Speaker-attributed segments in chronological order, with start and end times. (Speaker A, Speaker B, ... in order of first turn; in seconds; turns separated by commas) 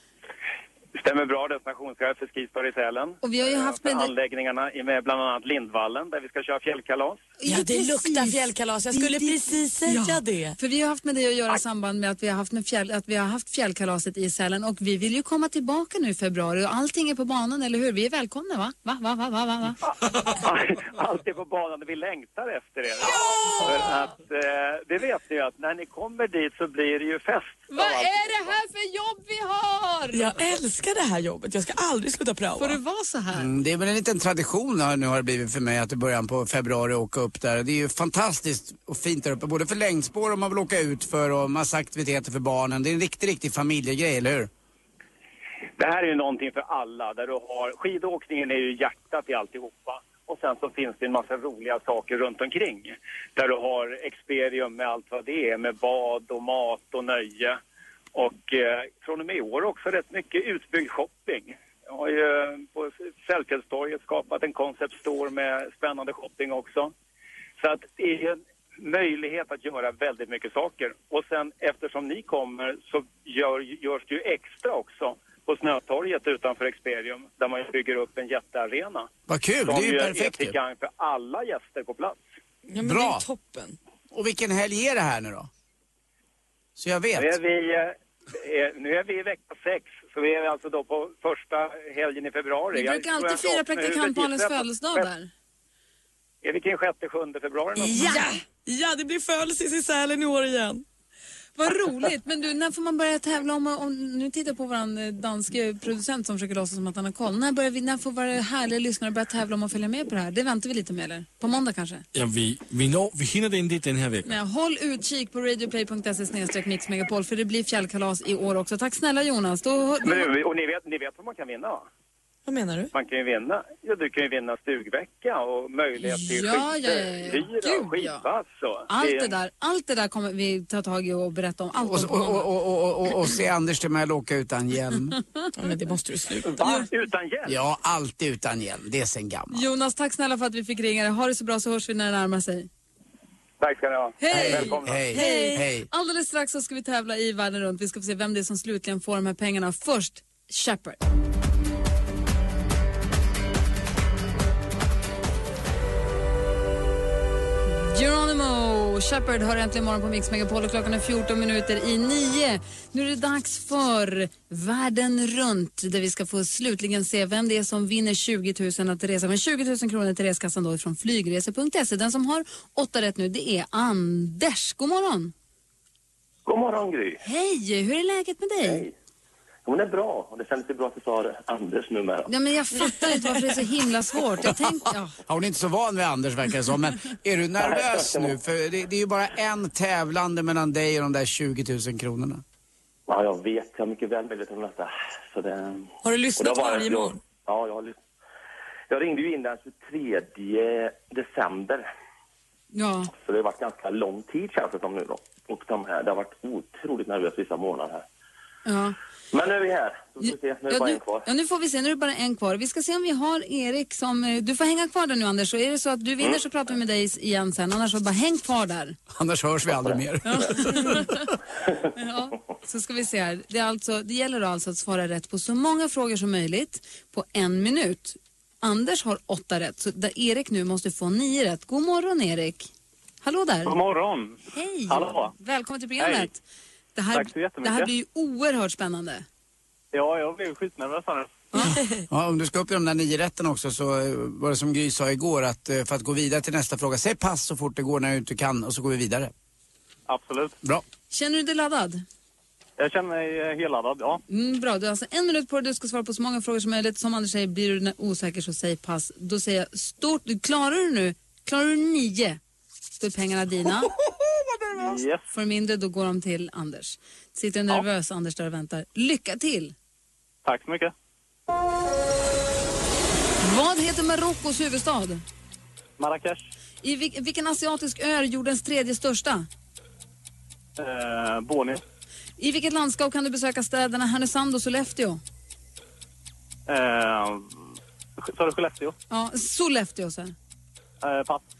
Speaker A: 0.9-7.2, Speaker B: 3.2-4.1, Speaker B: 7.4-19.8, Speaker C: 7.5-10.6, Speaker A: 20.1-28.5, Speaker B: 23.0-23.9, Speaker B: 27.7-30.2, Speaker C: 30.1-32.8, Speaker B: 32.6-33.5, Speaker D: 33.3-44.5, Speaker A: 45.8-57.6, Speaker A: 58.1-66.9, Speaker A: 67.6-79.1, Speaker D: 79.3-80.5, Speaker A: 79.6-82.2, Speaker C: 82.7-83.8, Speaker D: 82.8-83.2, Speaker D: 84.1-85.5, Speaker D: 86.8-87.4, Speaker A: 87.2-95.1, Speaker B: 92.7-95.3, Speaker A: 96.4-98.2, Speaker C: 97.8-100.8, Speaker B: 97.8-98.4, Speaker B: 101.5-112.0, Speaker E: 112.1-114.4, Speaker B: 114.2-120.3, Speaker A: 120.0-121.8, Speaker C: 122.5-122.9, Speaker A: 122.9-129.3, Speaker B: 126.0-128.2, Speaker B: 128.9-132.5, Speaker D: 131.8-135.2, Speaker B: 135.1-135.5, Speaker C: 135.6-136.9, Speaker A: 136.4-137.6, Speaker D: 137.4-139.6, Speaker B: 139.5-142.7, Speaker A: 143.6-145.1, Speaker B: 144.2-151.0, Speaker D: 144.3-145.9, Speaker C: 145.1-145.6, Speaker B: 157.7-175.3, Speaker F: 176.4-177.2, Speaker B: 177.2-178.8, Speaker F: 178.6-178.9, Speaker F: 179.6-182.3, Speaker B: 182.2-185.2, Speaker C: 182.8-183.4, Speaker D: 185.2-192.4, Speaker F: 187.6-188.3, Speaker F: 193.1-197.9, Speaker C: 196.0-197.2, Speaker F: 198.9-201.8, Speaker B: 202.7-203.1, Speaker F: 203.1-208.0, Speaker B: 208.7-209.0, Speaker F: 209.3-211.3, Speaker B: 210.2-219.0, Speaker D: 219.1-221.3, Speaker F: 219.7-220.0, Speaker B: 220.2-221.3, Speaker B: 221.9-232.7, Speaker B: 233.2-233.7, Speaker G: 233.7-234.4, Speaker B: 234.5-236.4, Speaker G: 234.9-235.3, Speaker G: 236.0-236.3, Speaker B: 236.9-239.2, Speaker G: 237.1-237.9, Speaker G: 239.9-241.3, Speaker B: 241.5-241.8, Speaker D: 242.1-249.3, Speaker G: 250.1-250.5, Speaker B: 251.1-252.0, Speaker G: 252.8-254.2, Speaker B: 254.3-262.4, Speaker B: 263.0-263.9, Speaker G: 264.8-265.2, Speaker B: 265.3-269.7, Speaker G: 270.4-270.9, Speaker B: 273.4-275.2, Speaker G: 276.0-276.4, Speaker B: 276.8-279.5, Speaker G: 280.8-281.8, Speaker B: 282.4-285.2, Speaker G: 286.7-287.4, Speaker G: 288.3-288.9, Speaker B: 289.1-290.3, Speaker G: 291.0-291.4